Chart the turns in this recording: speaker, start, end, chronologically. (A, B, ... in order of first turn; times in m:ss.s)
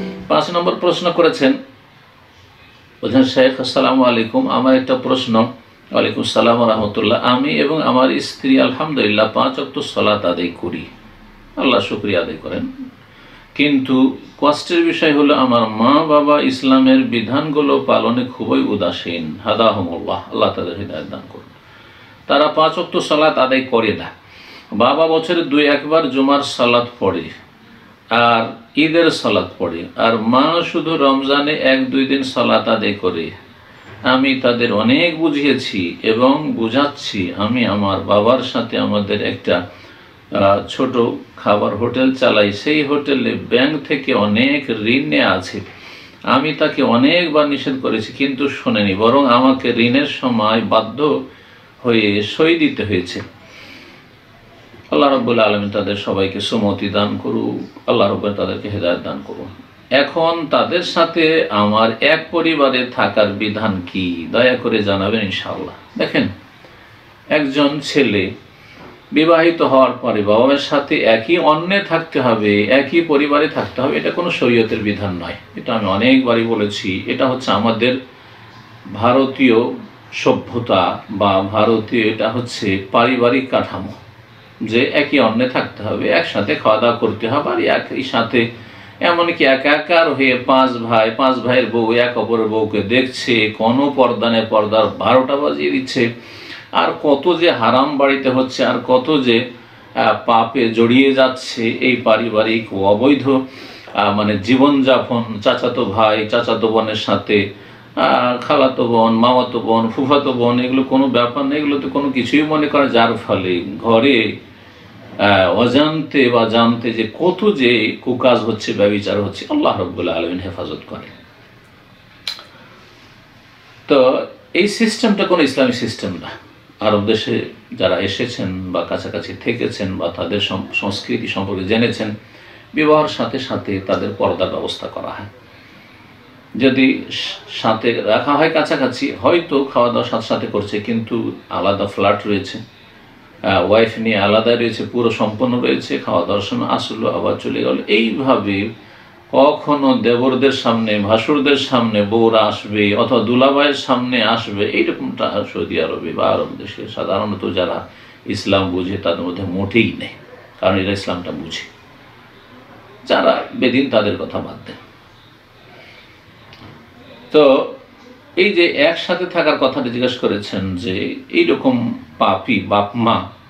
0:00.3-0:01.6 A
0:03.0-0:10.9 A
0:11.6-0:12.7 A
0:13.6-0:21.5 A
0:22.3-0:24.1 A
0:24.7-0:27.3 A
0:28.1-0:33.3 A
0:34.1-0:39.6 A
0:40.3-0:45.6 A
0:46.3-0:51.1 A
0:51.8-0:53.2 A
0:54.9-1:06.3 A
1:07.3-1:08.3 A
1:09.1-1:18.0 A
1:18.9-1:24.0 A
1:24.6-1:28.4 A
1:29.0-1:36.0 A
1:36.7-1:39.4 A
1:40.0-1:43.4 A
1:44.0-1:47.4 A
1:48.0-1:54.3 A
1:55.2-2:01.1 A
2:03.9-2:12.1 A
2:12.7-2:15.3 A
2:16.6-2:22.6 A
2:23.5-2:28.6 A
2:29.3-2:41.7 A
2:43.0-2:44.8 A
2:47.3-2:47.8 A
2:48.4-2:53.2 A